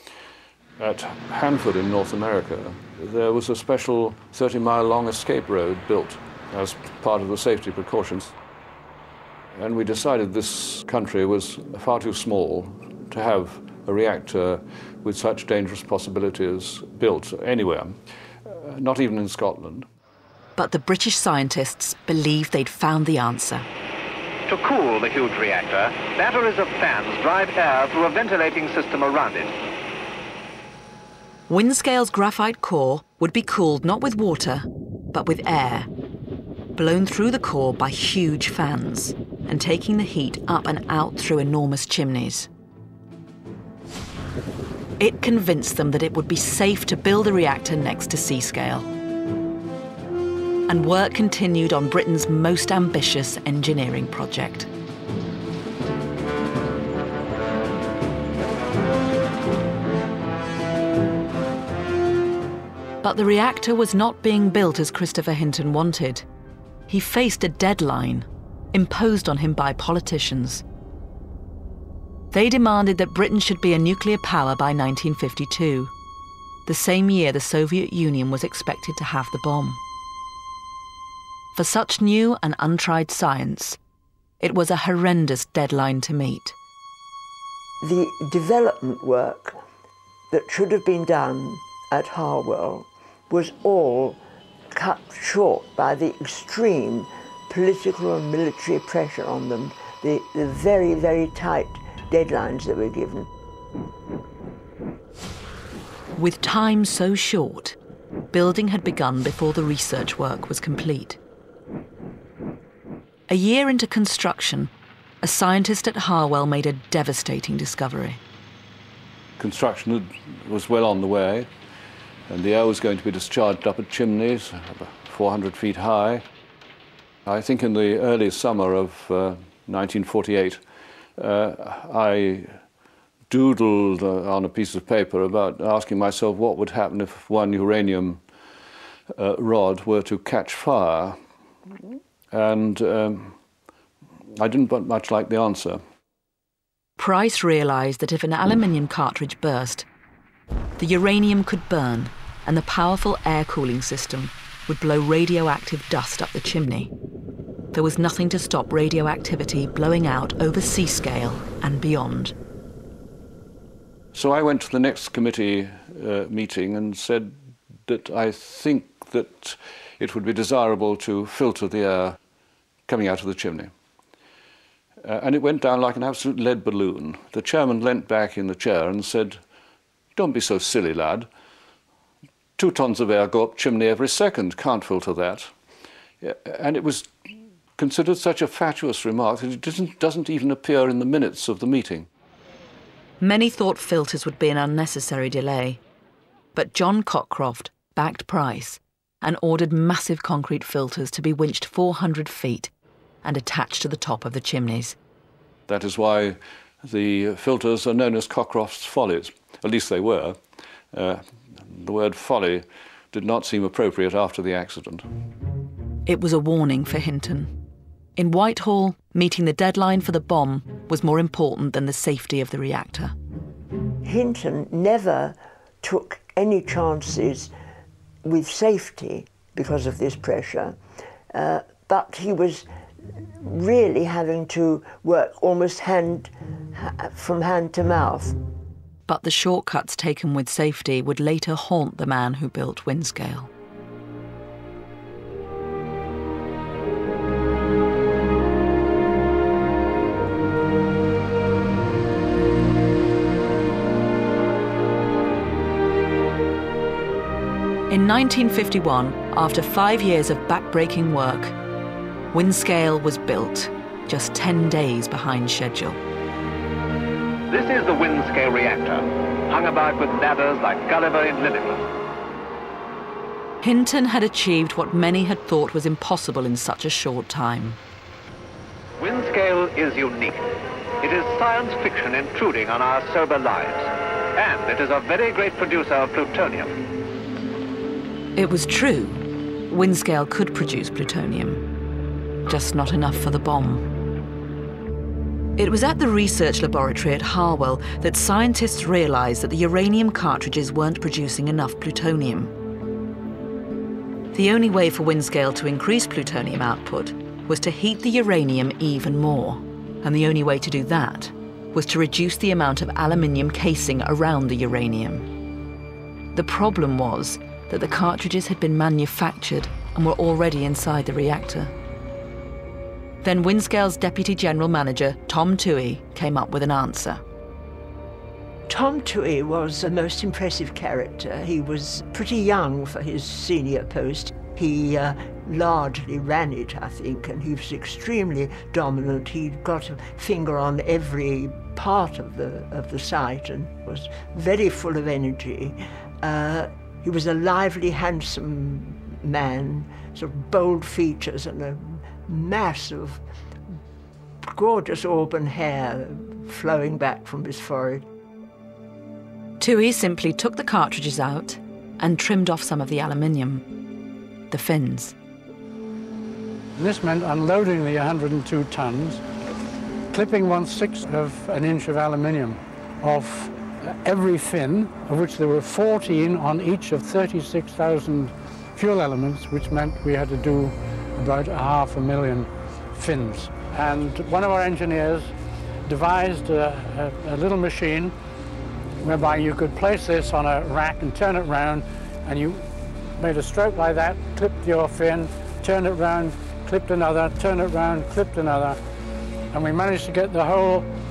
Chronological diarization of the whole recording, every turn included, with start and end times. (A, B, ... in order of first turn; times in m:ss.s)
0:00.8-0:08.3 A
0:09.5-0:19.8 A
0:20.6-0:23.7 B
0:24.5-0:29.5 C
0:31.5-0:35.9 B
0:36.8-0:42.5 B
0:45.0-0:48.9 B
0:50.7-0:54.7 B
1:03.0-1:06.2 B
1:06.9-1:10.6 B
1:12.3-1:15.9 B
1:16.6-1:19.8 B
1:21.5-1:23.8 B
1:24.4-1:26.6 B
1:27.8-1:29.6 D
1:30.3-1:34.2 D
1:34.7-1:43.3 D
1:46.1-1:47.8 B
1:48.3-1:51.2 B
1:53.3-1:54.7 B
1:55.2-1:58.2 B
1:59.4-2:01.5 A
2:02.3-2:06.2 A
2:07.2-2:10.6 A
2:11.2-2:12.6 A
2:13.3-2:18.2 A
2:19.2-2:21.2 A
2:22.3-2:23.3 A
2:24.4-2:25.8 A
2:27.0-2:29.8 B
2:30.8-2:36.9 B
2:37.7-2:42.3 B
2:44.1-2:52.2 A
2:52.9-2:53.7 A
2:55.0-2:59.4 A
3:00.2-3:01.3 A
3:02.6-3:05.5 A
3:06.2-3:07.1 A
3:07.8-3:12.1 A
3:13.2-3:15.8 B
3:16.5-3:22.7 B
3:23.2-3:25.0 B
3:25.7-3:30.4 A
3:30.9-3:35.0 A
3:36.0-3:37.5 B
3:38.2-3:43.1 B
3:44.0-3:47.5 D
3:48.2-3:50.8 D
3:51.3-3:52.6 D
3:53.4-3:58.4 D
3:59.1-4:03.5 B
4:17.9-4:21.6 B
4:22.3-4:26.0 B
4:27.5-4:31.8 C
4:33.6-4:37.8 B
4:39.0-4:40.4 C
4:41.0-4:46.7 C
4:48.4-4:51.6 B
4:52.4-4:53.8 B
4:55.6-5:02.5 B
5:04.3-5:15.3 B
5:16.3-5:21.7 B
5:23.2-5:27.2 B
5:28.7-5:53.2 D
5:54.4-5:58.0 D
5:59.6-6:03.6 B
6:04.5-6:05.1 B
6:06.8-6:09.2 E
6:10.1-6:25.3 E
6:25.8-6:28.1 E
6:29.0-6:38.8 E
6:39.5-6:40.9 E